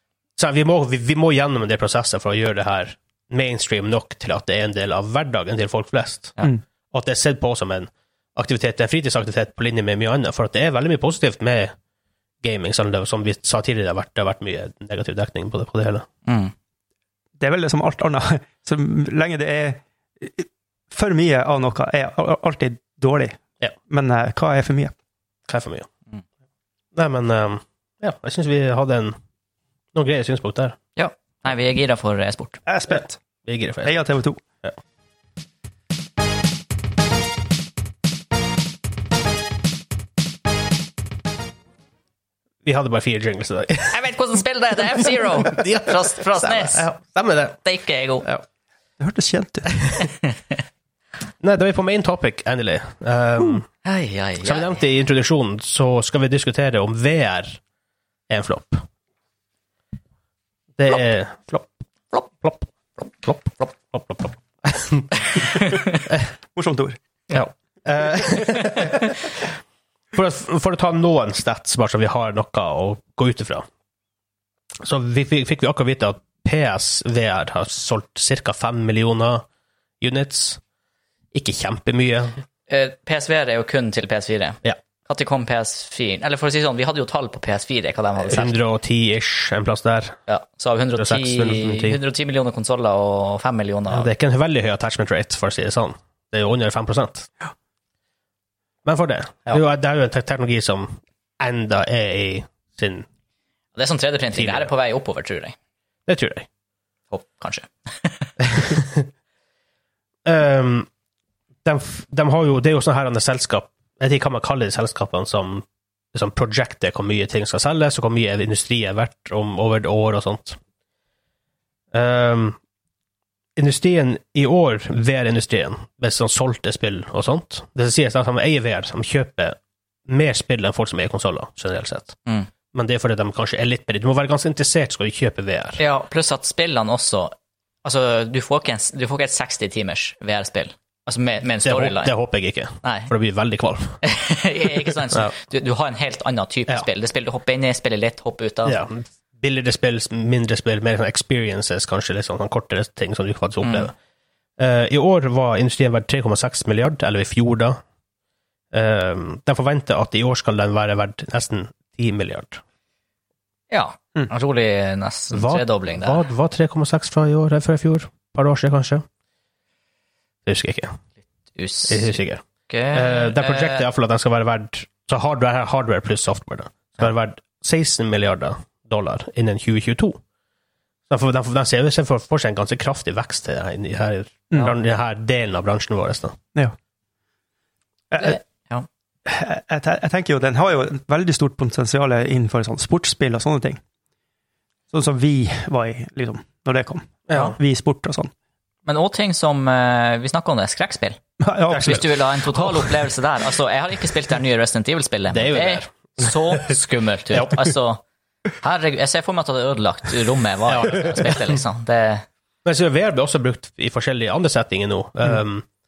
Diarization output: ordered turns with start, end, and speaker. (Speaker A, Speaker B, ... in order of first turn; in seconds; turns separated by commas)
Speaker A: 0.4-6.4, Speaker A: 6.9-11.7, Speaker A: 12.4-16.1, Speaker B: 16.2-16.5, Speaker C: 17.4-24.9, Speaker A: 25.5-25.9, Speaker A: 26.9-29.2, Speaker A: 29.9-30.8, Speaker B: 30.9-32.6, Speaker C: 32.6-33.2, Speaker A: 32.9-34.0, Speaker C: 33.8-34.4, Speaker A: 42.6-44.0, Speaker B: 43.9-46.9, Speaker A: 45.4-47.6, Speaker B: 47.6-48.3, Speaker C: 49.0-49.7, Speaker B: 50.0-50.3, Speaker A: 51.4-53.7, Speaker B: 53.8-54.8, Speaker A: 54.4-57.6, Speaker A: 58.3-58.9, Speaker A: 60.8-62.6, Speaker A: 63.2-66.2, Speaker C: 66.5-67.0, Speaker A: 67.3-69.2, Speaker A: 70.1-73.7, Speaker A: 74.8-79.5, Speaker A: 80.0-80.6, Speaker A: 81.3-82.4, Speaker B: 82.7-88.5, Speaker A: 88.2-90.2, Speaker B: 90.3-94.1, Speaker A: 91.0-92.0, Speaker A: 93.9-97.3, Speaker A: 98.8-103.0, Speaker B: 103.7-105.5, Speaker A: 104.3-104.7, Speaker A: 106.1-106.5, Speaker B: 107.1-108.3, Speaker A: 108.4-109.1, Speaker A: 110.2-110.9, Speaker A: 111.6-120.6, Speaker A: 121.9-122.6, Speaker A: 123.5-129.6, Speaker A: 130.1-132.2, Speaker A: 132.7-135.8, Speaker B: 135.8-142.1, Speaker A: 141.6-144.0, Speaker B: 142.8-143.1, Speaker B: 144.0-148.8, Speaker A: 148.6-153.9, Speaker B: 153.6-153.9, Speaker A: 154.6-157.8, Speaker A: 158.7-162.6, Speaker B: 163.7-166.2, Speaker A: 165.3-169.0, Speaker A: 170.4-171.0, Speaker B: 171.6-172.1, Speaker A: 171.9-180.2, Speaker B: 172.7-173.8, Speaker A: 181.1-186.4, Speaker C: 188.1-188.4, Speaker B: 188.2-188.9, Speaker C: 189.2-193.8, Speaker C: 194.9-198.3, Speaker A: 197.3-197.6, Speaker B: 198.8-201.2, Speaker C: 201.4-202.9, Speaker A: 201.7-202.1, Speaker B: 201.7-208.0, Speaker A: 205.3-206.7, Speaker A: 207.3-207.6, Speaker B: 208.6-212.2, Speaker A: 210.7-211.6, Speaker A: 212.6-215.7